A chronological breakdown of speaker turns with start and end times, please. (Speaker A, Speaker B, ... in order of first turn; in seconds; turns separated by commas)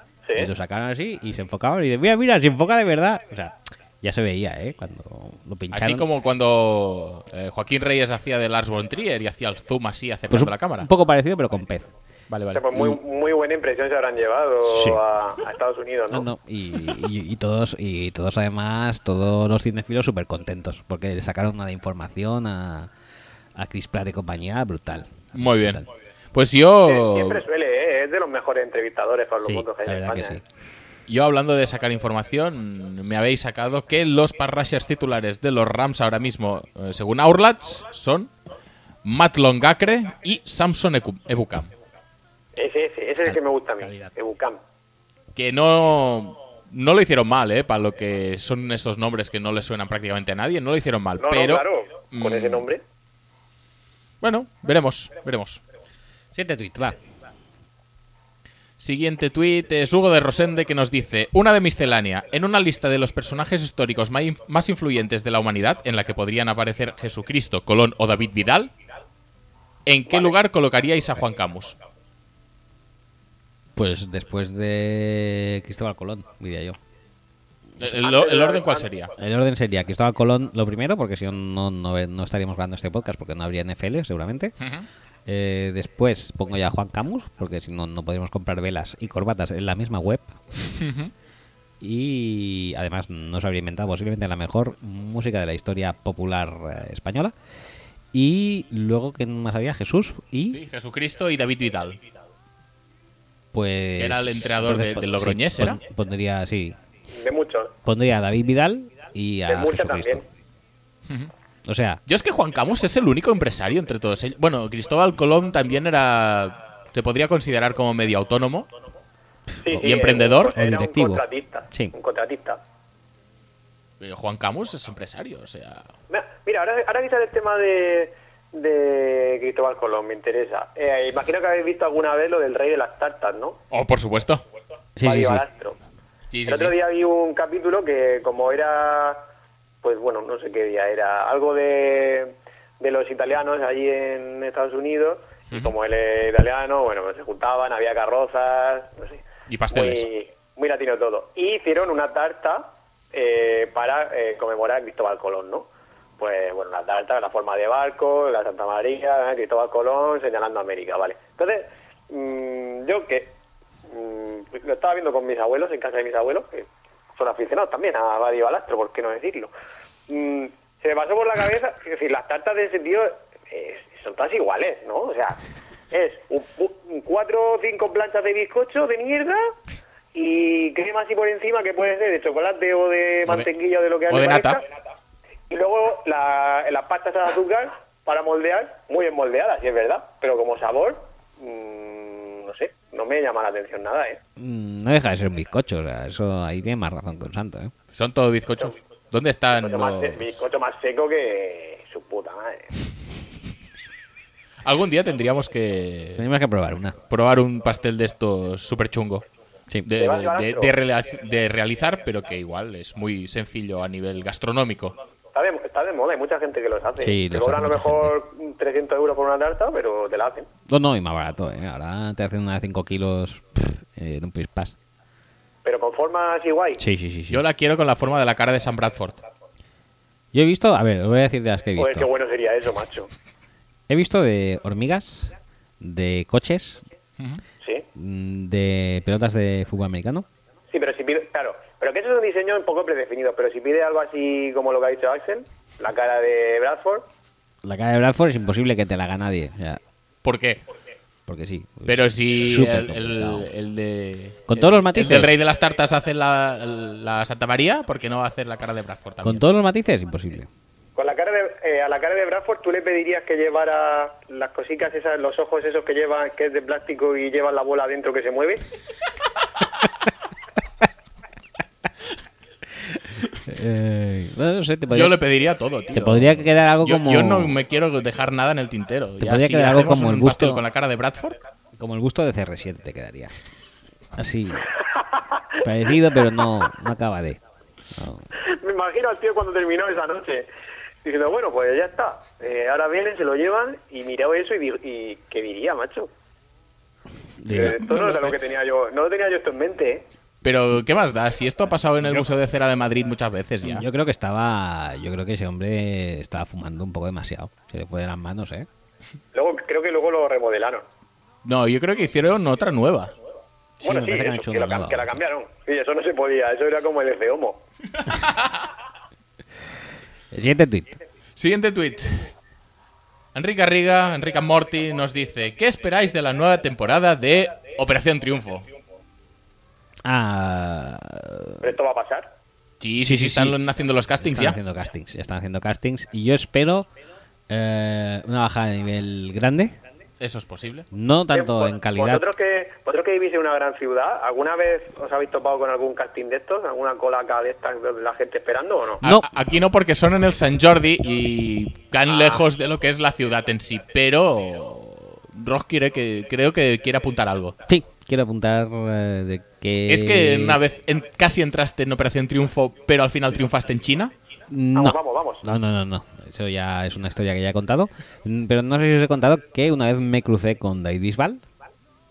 Speaker A: 0.3-6.1, Speaker B: 5.7-10.9, Speaker A: 10.3-11.9, Speaker B: 12.3-12.7, Speaker C: 12.5-16.2, Speaker A: 12.7-13.0, Speaker A: 14.6-15.0, Speaker A: 16.1-22.9, Speaker A: 23.6-25.9, Speaker B: 25.3-25.8, Speaker B: 26.3-27.4, Speaker C: 26.9-30.4, Speaker A: 29.4-30.4, Speaker B: 31.1-38.3, Speaker B: 39.0-41.7, Speaker C: 42.5-44.6, Speaker A: 43.2-44.1, Speaker B: 45.3-52.7, Speaker C: 51.2-52.8, Speaker B: 54.2-55.6, Speaker A: 56.3-57.0, Speaker B: 58.8-68.7, Speaker B: 69.8-71.8, Speaker A: 73.8-76.8, Speaker B: 77.8-79.1, Speaker C: 78.0-78.9, Speaker A: 79.2-84.5, Speaker B: 84.6-84.9, Speaker A: 85.3-90.4, Speaker B: 90.6-91.1, Speaker A: 91.8-97.3, Speaker A: 98.1-100.6, Speaker B: 100.5-102.0, Speaker A: 103.5-106.8, Speaker B: 104.0-105.8, Speaker C: 107.1-107.7, Speaker A: 107.8-110.2, Speaker C: 109.5-110.2, Speaker A: 111.7-112.0, Speaker B: 112.1-118.7, Speaker C: 119.6-122.6, Speaker B: 119.7-120.6, Speaker A: 120.5-121.9, Speaker B: 124.0-125.9, Speaker C: 126.1-133.6, Speaker B: 133.7-134.4, Speaker A: 135.0-135.4, Speaker C: 135.0-135.8, Speaker B: 136.3-136.7, Speaker C: 136.4-139.2, Speaker C: 139.8-149.2, Speaker B: 149.5-150.1, Speaker C: 149.7-155.7, Speaker C: 156.2-169.5, Speaker C: 170.1-179.5, Speaker C: 180.1-184.6, Speaker B: 184.1-184.6, Speaker C: 185.5-194.2, Speaker A: 194.4-197.7, Speaker B: 197.9-200.4, Speaker C: 199.6-202.7, Speaker B: 204.6-206.2, Speaker A: 206.2-207.0, Speaker B: 207.1-209.2, Speaker B: 209.8-214.9, Speaker C: 209.9-210.7, Speaker C: 215.3-220.5, Speaker A: 217.0-218.1, Speaker A: 220.7-224.8, Speaker C: 225.6-226.8, Speaker A: 226.8-227.4, Speaker B: 227.3-229.2, Speaker A: 230.3-232.1, Speaker C: 231.8-233.1, Speaker A: 233.9-236.9, Speaker B: 237.2-237.4, Speaker C: 237.6-237.8, Speaker A: 237.9-240.2, Speaker C: 240.7-247.1, Speaker A: 247.6-249.8, Speaker B: 250.2-250.6, Speaker A: 251.3-253.5, Speaker B: 251.9-259.4, Speaker A: 254.5-255.3, Speaker A: 259.2-260.5, Speaker C: 260.9-268.6, Speaker A: 273.4-275.1, Speaker B: 274.9-281.4, Speaker A: 275.9-277.6, Speaker A: 279.2-280.6, Speaker A: 281.8-283.3, Speaker A: 284.1-284.7, Speaker A: 285.6-287.4, Speaker A: 287.9-288.3, Speaker C: 288.4-290.5, Speaker C: 291.0-296.1, Speaker A: 297.4-298.0, Speaker C: 297.5-300.1, Speaker B: 297.7-298.3, Speaker B: 300.4-303.9, Speaker A: 303.6-308.7, Speaker C: 309.3-310.8, Speaker B: 311.4-313.1, Speaker A: 313.8-315.2, Speaker C: 313.8-317.6, Speaker B: 318.0-318.7, Speaker A: 320.3-320.9, Speaker B: 321.4-322.3, Speaker B: 323.3-328.7, Speaker A: 330.0-331.7, Speaker C: 331.6-332.3, Speaker B: 332.8-334.6, Speaker A: 333.0-333.6, Speaker A: 334.2-336.9, Speaker A: 337.5-339.7, Speaker B: 340.2-340.9, Speaker A: 340.9-342.2, Speaker C: 341.3-349.0, Speaker A: 349.0-349.3, Speaker B: 349.0-357.6, Speaker C: 352.1-352.4, Speaker A: 357.7-360.6, Speaker B: 359.9-364.1, Speaker A: 364.5-371.4, Speaker C: 364.7-365.4